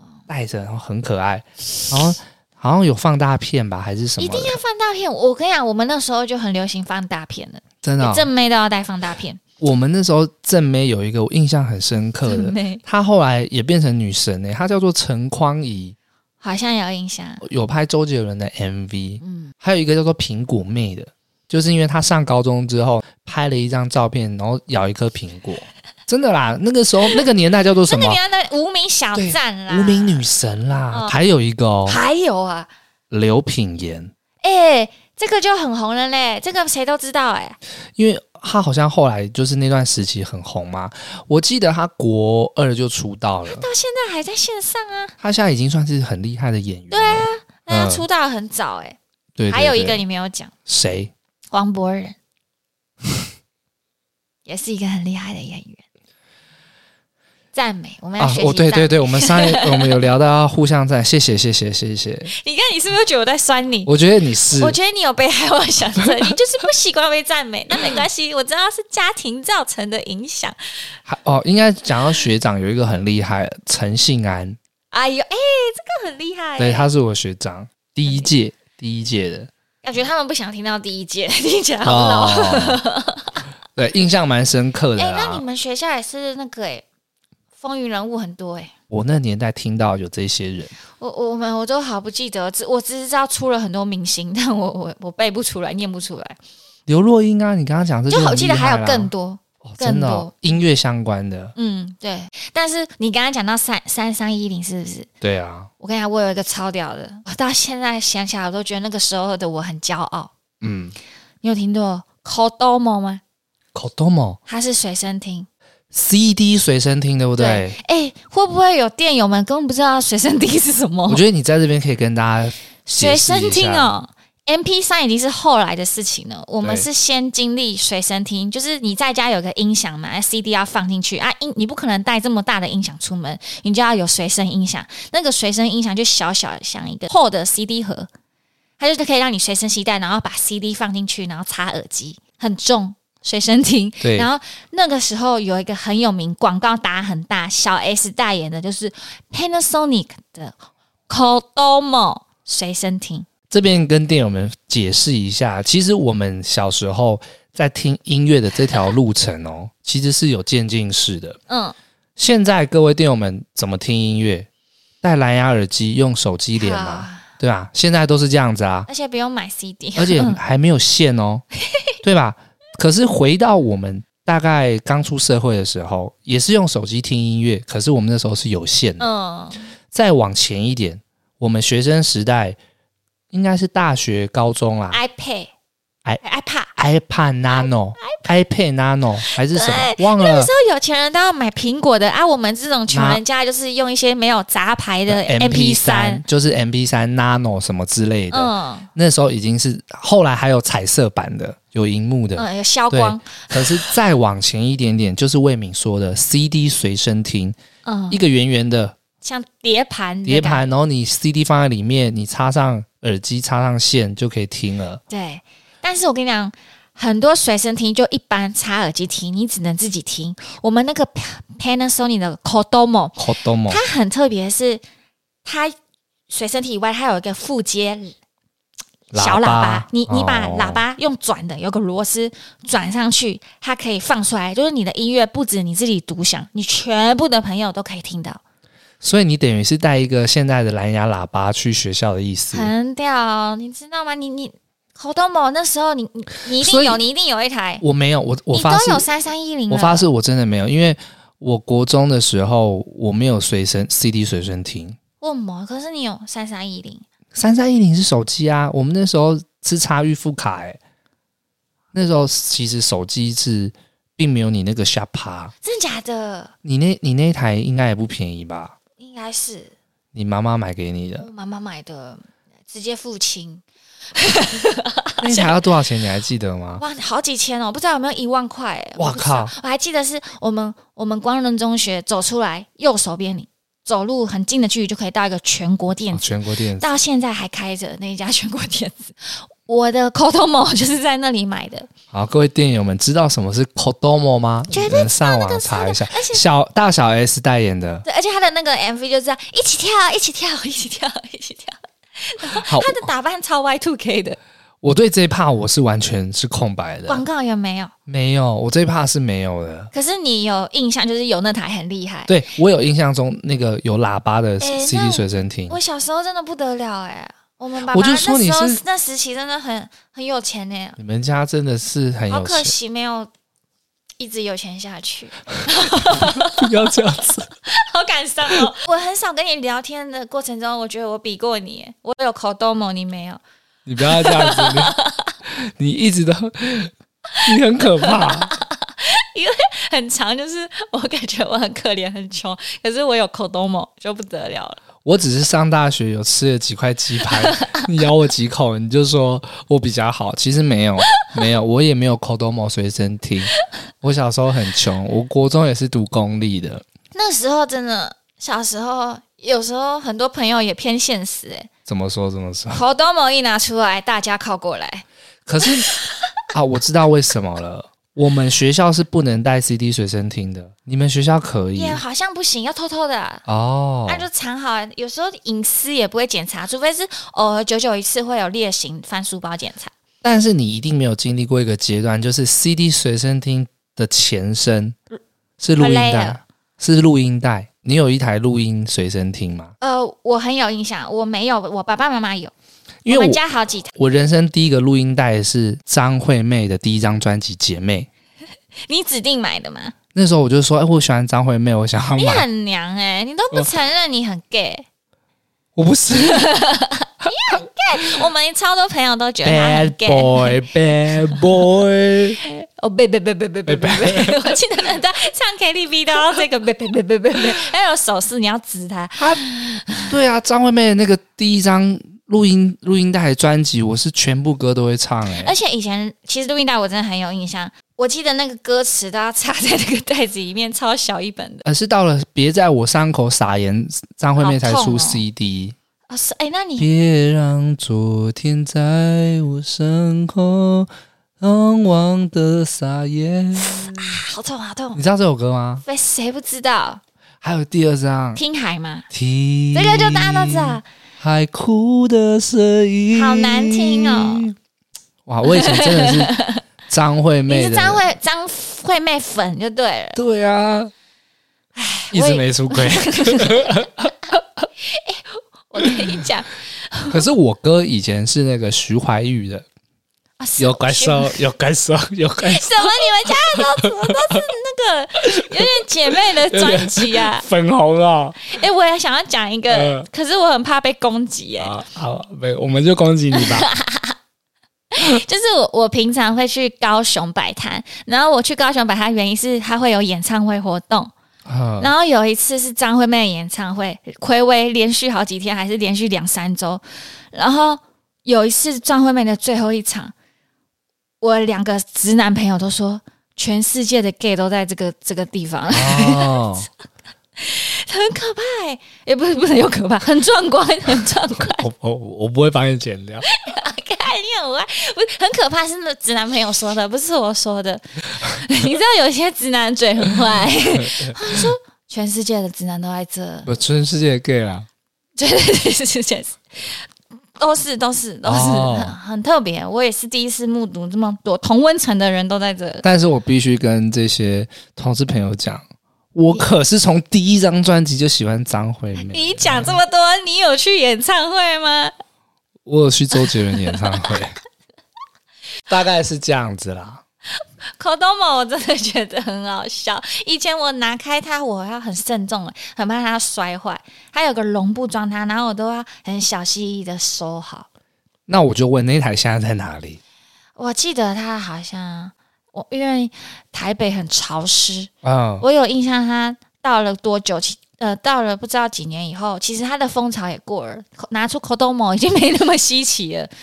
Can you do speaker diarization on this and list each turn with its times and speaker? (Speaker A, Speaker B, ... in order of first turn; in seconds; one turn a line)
Speaker A: 0.3-4.6
Speaker B: 4.2-9.4
Speaker A: 7.8-8.3
Speaker A: 9.6-15.9
Speaker B: 12.3-12.8
Speaker B: 16.4-17.4
Speaker A: 17.4-28.2
Speaker B: 19.2-19.5
Speaker B: 27.9-30.3
Speaker A: 29.1-32.0
Speaker B: 31.9-32.7
Speaker A: 33.1-34.1
Speaker B: 34.4-37.6
Speaker A: 38.0-43.7
Speaker B: 43.5-45.1
Speaker A: 45.2-48.0
Speaker B: 46.9-49.0
Speaker A: 49.4-50.0
Speaker B: 49.5-50.5
Speaker A: 50.7-51.1
Speaker B: 51.5-52.2
Speaker B: 54.5-55.8
Speaker B: 57.5-60.0
Speaker A: 58.2-62.3
Speaker B: 62.3-63.9
Speaker A: 63.9-64.8
Speaker B: 64.5-70.6
Speaker A: 66.0-66.3
Speaker A: 71.1-74.6
Speaker B: 74.9-76.9
Speaker A: 76.6-79.5
Speaker B: 79.8-83.4
Speaker A: 81.8-82.8
Speaker A: 83.8-85.5
Speaker B: 85.0-86.8
Speaker B: 87.6-88.7
Speaker A: 88.9-90.7
Speaker B: 91.0-96.4
Speaker A: 96.9-99.1
Speaker B: 98.1-100.3
Speaker A: 99.6-101.5
Speaker B: 101.6-105.1
Speaker A: 105.2-105.7
Speaker B: 105.8-110.3
Speaker A: 110.6-111.0
Speaker B: 111.4-113.2
Speaker A: 113.7-114.4
Speaker B: 114.5-115.5
Speaker A: 115.9-117.8
Speaker B: 117.4-121.2
Speaker A: 121.1-123.9
Speaker B: 122.8-138.1
Speaker B: 138.8-150.6
Speaker A: 144.0-144.3
Speaker B: 151.1-153.3
Speaker A: 153.5-161.4
Speaker B: 161.5-161.8
Speaker A: 162.2-164.5
Speaker A: 165.0-168.9
Speaker B: 166.6-167.3
Speaker B: 168.9-170.4
Speaker A: 170.0-171.4
Speaker A: 172.0-179.1
Speaker B: 179.0-179.7
Speaker A: 179.9-182.6
Speaker A: 183.3-185.0
Speaker B: 184.9-185.5
Speaker B: 186.2-186.7
Speaker A: 186.8-190.5
Speaker B: 187.5-188.3
Speaker B: 189.2-196.2
Speaker A: 192.9-193.2
Speaker A: 195.1-207.6
Speaker B: 198.3-198.9
Speaker B: 202.4-204.0
Speaker B: 207.8-208.2
Speaker A: 208.1-209.0
Speaker B: 209.2-210.7
Speaker A: 210.3-215.0
Speaker B: 215.1-224.8
Speaker A: 223.2-223.8
Speaker B: 225.4-225.8
Speaker B: 226.3-228.2
Speaker A: 229.1-230.8
Speaker B: 229.1-238.4
Speaker A: 239.0-242.7
Speaker B: 242.5-247.8
Speaker A: 246.5-247.0
Speaker A: 247.8-249.1
Speaker B: 248.5-250.1
Speaker A: 249.7-255.0
Speaker B: 255.2-257.1
Speaker A: 257.3-260.8
Speaker A: 261.9-265.5
Speaker B: 265.6-266.5
Speaker A: 266.6-268.8
Speaker B: 269.0-269.7
Speaker A: 270.1-271.3
Speaker B: 271.2-275.6
Speaker A: 275.2-276.8
Speaker B: 276.8-291.9
Speaker A: 279.0-279.5
Speaker A: 286.1-286.9
Speaker A: 292.1-298.0
Speaker B: 294.7-296.4
Speaker B: 298.1-304.4
Speaker A: 302.5-303.1
Speaker A: 304.8-307.2
Speaker B: 307.1-307.9
Speaker A: 308.1-309.9
Speaker B: 309.9-312.4
Speaker A: 312.3-315.8
Speaker B: 314.6-321.0
Speaker A: 317.9-318.8
Speaker A: 321.0-322.7
Speaker B: 322.3-323.3
Speaker B: 324.2-327.0
Speaker A: 325.9-327.5
Speaker B: 327.7-333.4
Speaker A: 333.9-335.0
Speaker B: 334.0-335.3
Speaker A: 335.5-336.9
Speaker B: 337.4-344.8
Speaker A: 337.4-338.5
Speaker A: 345.1-356.8
Speaker B: 347.3-347.8
Speaker B: 357.1-361.7
Speaker A: 361.9-362.8
Speaker B: 362.7-365.1
Speaker A: 365.5-365.9
Speaker B: 365.6-366.0
Speaker A: 366.5-372.0
Speaker B: 371.8-373.4
Speaker A: 373.5-374.3
Speaker B: 374.1-379.9
Speaker A: 380.2-385.0
Speaker A: 385.6-389.7
Speaker B: 385.8-386.4
Speaker B: 389.8-392.5
Speaker A: 393.1-393.4
Speaker B: 393.1-393.9
Speaker A: 393.9-398.1
Speaker B: 398.9-399.9
Speaker A: 400.1-402.4
Speaker B: 402.2-404.9
Speaker A: 405.8-406.6
Speaker B: 406.2-410.6
Speaker A: 409.4-412.4
Speaker B: 412.4-420.2
Speaker A: 413.7-414.6
Speaker A: 419.2-419.4
Speaker A: 420.0-425.5
Speaker B: 425.3-431.6
Speaker A: 431.6-435.8
Speaker B: 434.4-435.2
Speaker B: 436.1-436.9
Speaker A: 436.8-444.2
Speaker B: 443.6-445.0
Speaker A: 444.9-445.8
Speaker B: 445.8-447.0
Speaker A: 447.4-448.4
Speaker B: 448.4-449.1
Speaker A: 449.1-454.5
Speaker B: 449.7-450.9
Speaker B: 453.1-454.5
Speaker A: 455.3-456.4
Speaker B: 455.4-456.6
Speaker A: 456.9-458.0
Speaker B: 457.5-460.2
Speaker A: 460.2-460.9
Speaker B: 461.8-463.9
Speaker A: 462.1-464.1
Speaker B: 464.8-467.2
Speaker A: 465.8-466.2
Speaker A: 467.1-469.6
Speaker B: 470.4-471.4
Speaker A: 470.6-474.4
Speaker B: 472.4-477.5
Speaker A: 475.3-478.4
Speaker B: 478.4-481.8
Speaker A: 479.7-480.1
Speaker A: 481.6-483.7
Speaker B: 483.3-484.1
Speaker B: 484.9-491.1
Speaker A: 491.5-491.9
Speaker B: 491.8-500.1
Speaker B: 501.2-506.6
Speaker A: 505.7-506.7
Speaker B: 507.4-511.7
Speaker A: 511.4-513.2
Speaker B: 513.3-523.5
Speaker A: 520.8-521.5
Speaker A: 523.5-524.7
Speaker B: 525.2-532.8
Speaker A: 528.2-529.0
Speaker A: 532.8-535.6
Speaker A: 536.1-539.8
Speaker B: 539.0-541.9
Speaker A: 542.6-544.4
Speaker B: 543.2-544.2
Speaker A: 545.7-547.0
Speaker B: 547.8-557.7
Speaker A: 558.3-560.0
Speaker B: 560.6-573.3
Speaker A: 565.0-565.5